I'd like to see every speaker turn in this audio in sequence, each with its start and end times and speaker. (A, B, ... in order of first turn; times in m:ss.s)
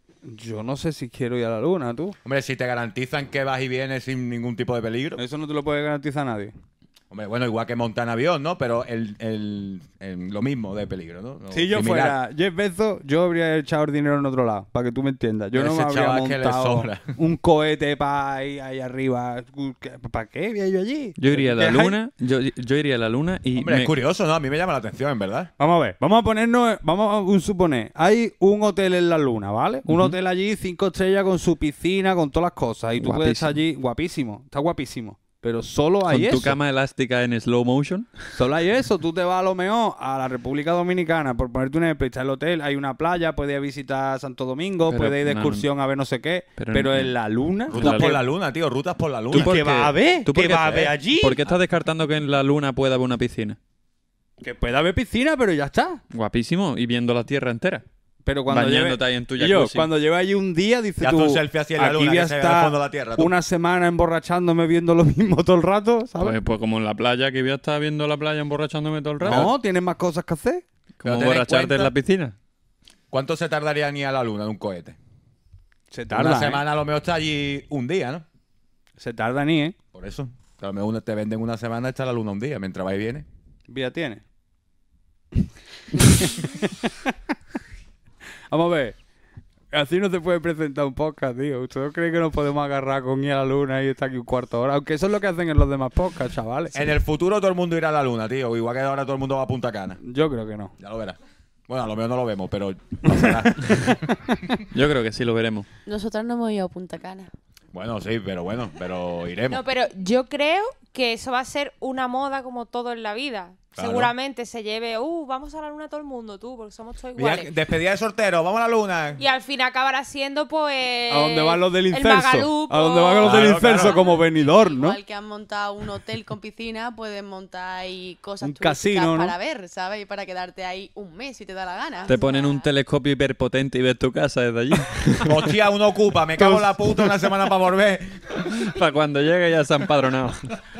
0:00.2-0:02.2 A
0:02.2-0:05.2 B
0:05.2-0:06.5 A
0:07.1-0:12.2 B
0:11.5-0:22.0 A
0:15.5-0:17.1 B
0:21.2-0:23.9 C
0:23.6-0:25.5 B
0:25.6-0:36.6 A
0:29.9-0:30.2 C
0:33.0-0:33.5 C
0:36.1-0:38.2 C
0:38.3-0:48.2 A
0:44.9-0:45.7 C
0:46.6-0:47.1 C
0:47.7-0:49.6 B
0:47.7-0:48.2 C
0:49.3-0:51.4 A
0:49.3-0:53.6 C
0:54.4-0:56.0 A
0:56.1-0:57.8 C
0:58.2-1:06.4 A
0:58.5-0:59.9 C
1:01.0-1:03.3 B
1:06.2-1:09.5 C
1:09.2-1:10.6 A
1:09.2-1:09.5 B
1:11.0-1:12.4 C
1:11.0-1:11.9 B
1:13.1-1:15.0 B
1:15.9-1:16.6 A
1:16.1-1:18.2 B
1:19.0-1:19.8 A
1:19.9-1:23.3 B
1:23.7-1:24.2 A
1:25.4-1:27.2 A
1:28.5-1:29.0 A
1:29.7-1:36.9 A
1:36.7-1:40.0 B
1:40.0-1:40.7 A
1:40.8-1:44.0 B
1:43.7-1:44.5 A
1:44.7-1:45.7 C
1:45.9-1:47.3 D
1:47.7-1:49.6 B
1:49.5-1:57.5 E
1:53.8-1:54.1 B
1:57.2-1:59.2 B
1:59.2-2:04.1 E
2:01.1-2:05.0 A
2:03.2-2:04.0 B
2:04.3-2:12.7 D
2:08.4-2:09.3 A
2:12.1-2:15.4 C
2:15.2-2:18.5 B
2:16.4-2:16.7 A
2:18.4-2:20.6 C